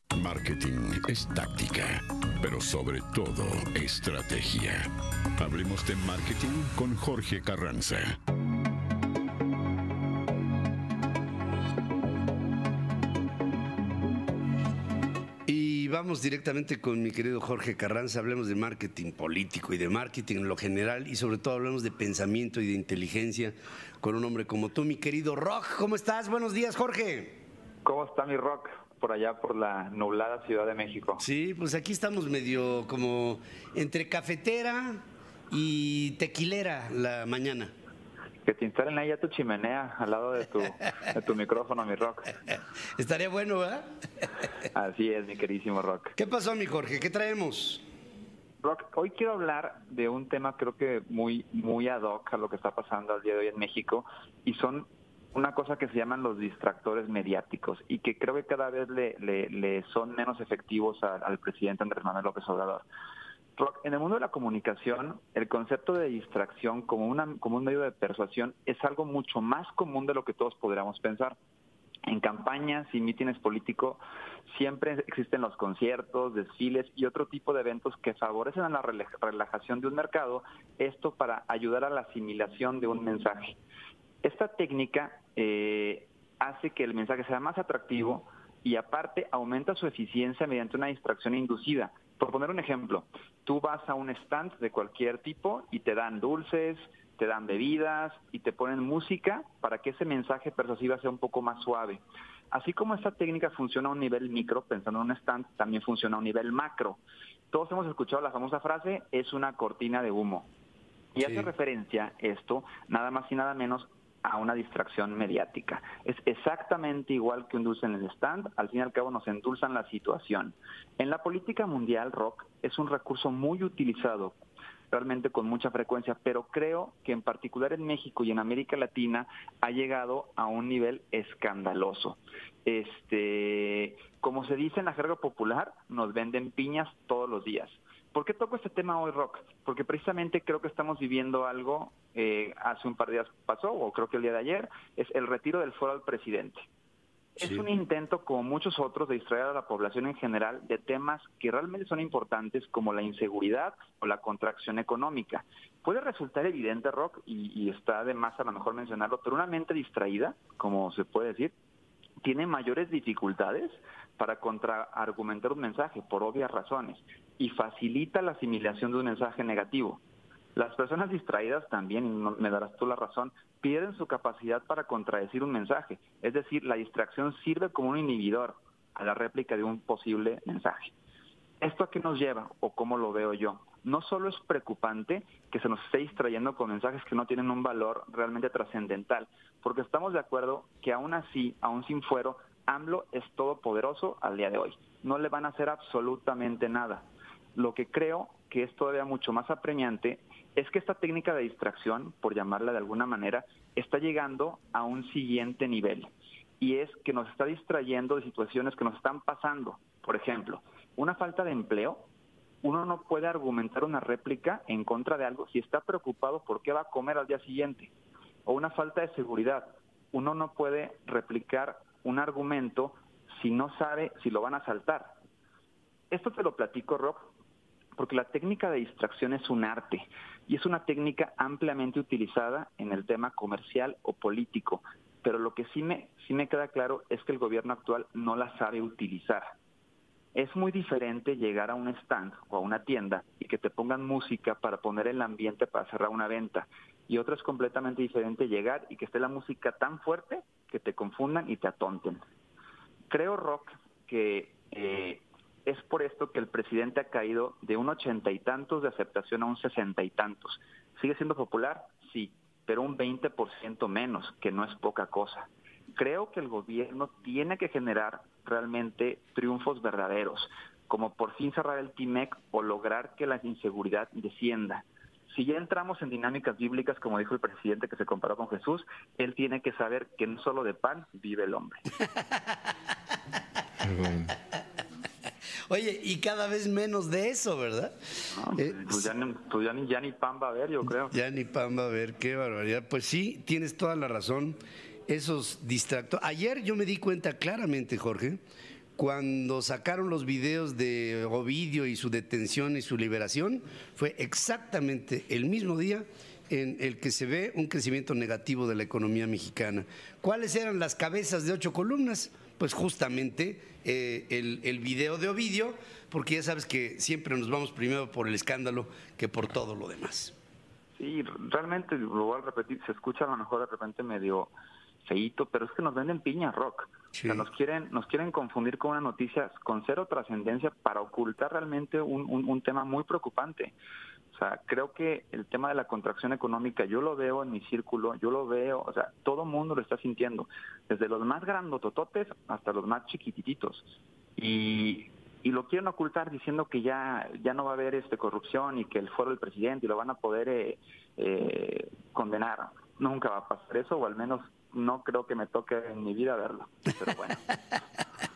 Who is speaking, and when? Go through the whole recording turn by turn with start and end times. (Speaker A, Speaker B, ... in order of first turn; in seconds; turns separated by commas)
Speaker A: 0.1-4.8, Speaker A: 5.4-8.1, Speaker B: 15.4-27.4, Speaker C: 27.8-31.2, Speaker B: 31.2-37.7, Speaker C: 38.4-42.3, Speaker B: 42.5-44.2, Speaker C: 44.7-46.1, Speaker B: 46.2-47.8, Speaker C: 48.6-62.9, Speaker C: 63.5-71.3, Speaker C: 72.1-83.6, Speaker C: 84.2-110.5, Speaker C: 111.1-124.4, Speaker C: 124.9-146.7, Speaker C: 147.3-161.5, Speaker B: 147.4-147.7, Speaker C: 162.2-170.0, Speaker C: 170.5-180.9, Speaker C: 181.6-212.1, Speaker C: 212.6-217.9, Speaker C: 218.4-225.2, Speaker C: 226.1-227.3, Speaker C: 227.9-239.5, Speaker C: 240.3-252.2, Speaker C: 253.1-281.8, Speaker B: 285.7-287.9, Speaker C: 288.3-291.2, Speaker B: 288.5-289.1, Speaker B: 291.1-298.4, Speaker B: 298.9-320.3, Speaker C: 320.9-324.5, Speaker C: 325.0-333.7, Speaker B: 327.1-327.4, Speaker C: 334.3-357.5